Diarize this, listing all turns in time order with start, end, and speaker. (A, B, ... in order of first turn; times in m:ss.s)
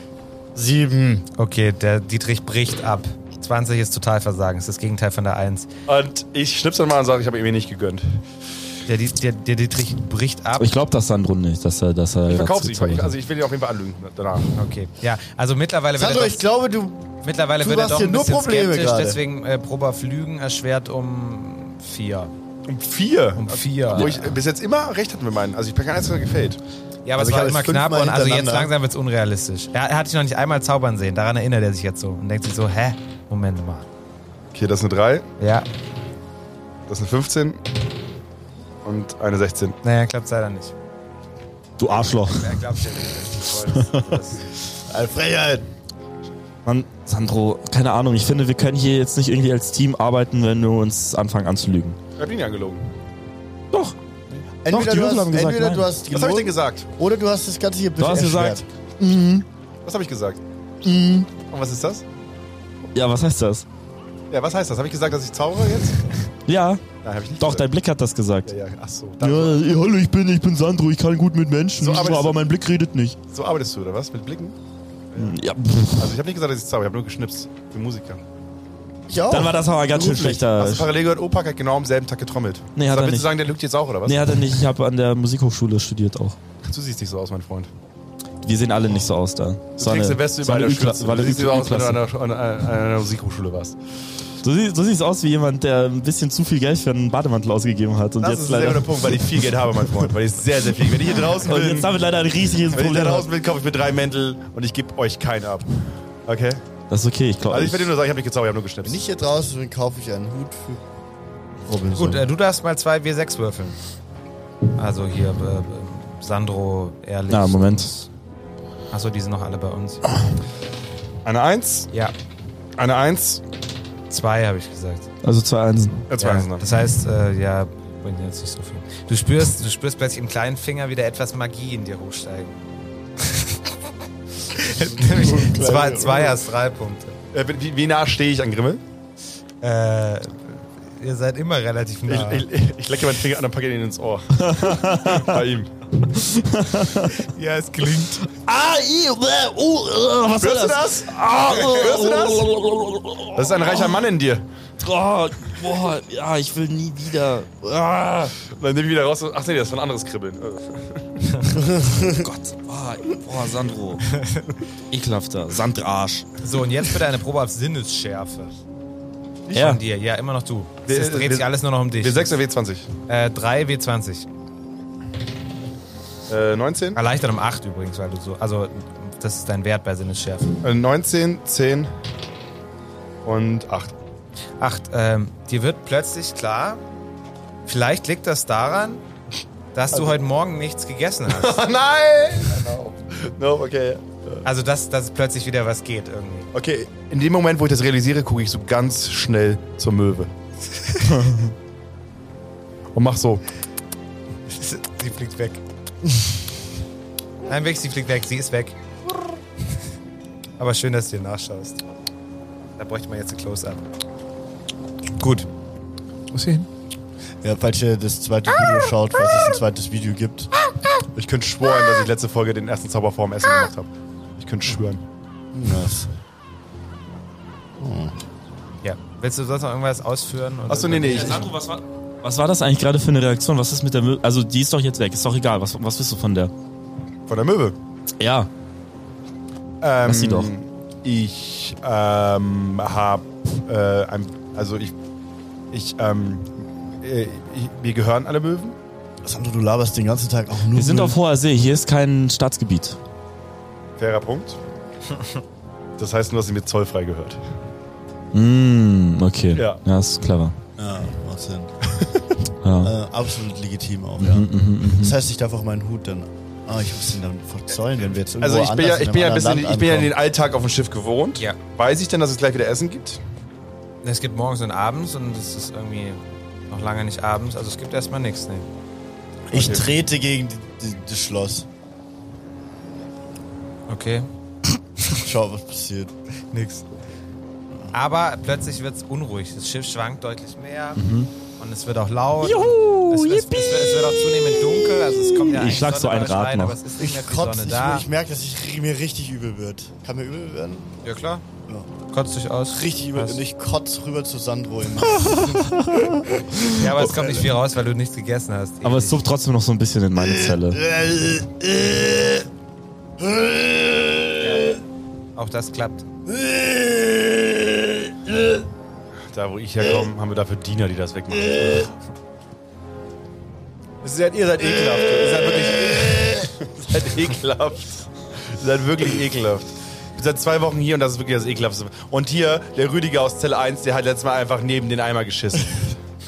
0:00.5-0:01.2 A
0:01.4-0:05.7 B
0:05.9-0:08.2 C
0:08.9-0:10.7 B
0:10.6-0:13.2 D
0:12.3-0:14.5 C
0:14.5-0:16.4 B
0:16.0-0:19.2 A
0:17.2-0:22.3 B
0:22.7-0:26.6 C
0:23.4-0:24.2 B
0:23.9-0:24.3 D
0:27.0-0:33.8 B
0:27.2-0:28.7 A
0:34.5-0:35.3 C
0:35.4-0:35.7 B
0:36.9-0:37.6 C
0:38.8-0:39.8 C
0:39.8-0:40.7 B
0:41.8-0:42.6 D
0:42.2-0:44.4 B
0:43.8-0:44.1 D
0:44.9-0:45.7 A
0:46.6-0:52.0 D
0:52.2-0:52.9 C
0:54.6-0:58.6 A
0:54.7-0:55.9 D
0:56.1-0:56.9 C
0:58.0-0:59.4 D
0:59.8-1:00.4 C
1:00.8-1:01.3 D
1:01.4-1:02.0 C
1:02.9-1:03.6 D
1:04.3-1:06.1 C
1:06.5-1:06.8 D
1:07.0-1:07.7 C
1:07.4-1:08.5 D
1:08.4-1:09.6 C
1:09.2-1:13.2 D
1:11.8-1:12.4 C
1:13.3-1:14.5 C
1:15.1-1:15.4 C
1:15.2-1:16.2 D
1:16.0-1:18.2 C
1:19.1-1:20.5 A
1:19.3-1:20.9 D
1:20.6-1:24.4 C
1:22.8-1:23.3 D
1:24.0-1:26.4 D
1:26.6-1:27.7 C
1:28.4-1:32.0 D
1:29.8-1:33.8 C
1:34.4-1:40.0 D
1:38.2-1:41.9 C
1:41.0-1:43.3 D
1:42.7-1:46.6 C
1:46.9-1:47.9 D
1:47.5-1:49.0 C
1:48.8-1:50.8 A
1:51.6-1:52.3 A
1:52.0-1:53.8 B
1:54.8-1:58.1 B
1:57.3-1:57.9 D
1:58.9-2:00.0 B
2:01.2-2:01.9 C
2:02.8-2:03.4 C
2:04.1-2:05.1 B
2:05.2-2:06.1 D
2:06.1-2:06.6 C
2:06.2-2:12.6 B
2:13.2-2:13.6 B
2:14.4-2:17.2 B
2:14.8-2:16.4 A
2:17.3-2:18.8 C
2:19.6-2:22.4 B
2:22.1-2:25.7 C
2:24.4-2:25.3 D
2:26.1-2:27.1 D
2:27.1-2:28.3 B
2:28.3-2:34.0 D
2:30.4-2:32.5 C
2:33.3-2:34.5 C
2:34.8-2:38.3 D
2:38.5-2:41.5 C
2:41.5-2:42.3 A
2:42.0-2:44.2 D
2:44.9-2:46.3 D
2:46.4-2:48.6 B
2:49.5-2:49.8 D
2:49.5-2:52.3 B
2:50.8-2:52.9 C
2:53.1-2:54.2 B
2:56.3-2:57.0 C
2:56.9-3:00.5 B
3:00.6-3:01.9 C
3:03.2-3:03.9 C
3:04.6-3:06.8 B
3:07.6-3:09.0 B
3:09.7-3:11.6 B
3:11.3-3:14.4 C
3:14.4-3:16.5 B
3:16.5-3:20.3 C
3:21.1-3:21.5 D
3:22.9-3:23.4 C
3:24.5-3:25.6 B
3:27.4-3:28.8 B
3:30.6-3:31.8 B
3:32.8-3:33.8 B
3:35.2-3:35.5 B
3:36.3-3:36.6 C
3:37.4-3:40.5 A
3:41.1-3:45.0 C
3:45.5-3:46.1 A
3:47.8-3:48.1 A
3:48.8-3:51.5 B
3:50.7-3:51.5 C
3:51.1-3:56.5 D
3:57.3-3:57.8 C
3:58.2-3:58.5 D
3:59.8-4:04.9 C
4:00.0-4:00.5 D
4:05.7-4:08.8 C
4:09.2-4:11.2 A
4:10.7-4:13.0 D
4:14.0-4:14.6 C
4:16.0-4:17.4 C
4:18.3-4:20.5 D
4:19.5-4:19.8 C
4:20.8-4:21.7 A
4:22.6-4:22.9 D
4:22.8-4:30.1 A
4:24.2-4:25.2 D
4:28.4-4:33.2 C
4:34.0-4:38.7 B
4:39.5-4:41.6 A
4:39.5-4:39.8 C
4:43.9-4:44.3 B
4:45.1-4:46.1 A
4:46.5-4:46.8 B
4:47.9-4:51.0 B
4:51.0-4:51.3 D
4:51.6-4:58.0 B
4:52.4-4:56.8 D
4:57.0-5:01.0 A
5:01.0-5:01.4 B
5:02.1-5:03.4 B
5:02.7-5:07.5 A
5:05.2-5:05.8 D
5:06.7-5:09.2 B
5:08.8-5:10.8 D
5:10.2-5:12.5 A
5:13.2-5:14.8 A
5:14.4-5:14.7 B
5:15.4-5:16.0 B
5:16.3-5:18.6 A
5:19.3-5:21.9 C
5:21.4-5:21.8 A
5:24.0-5:36.0 C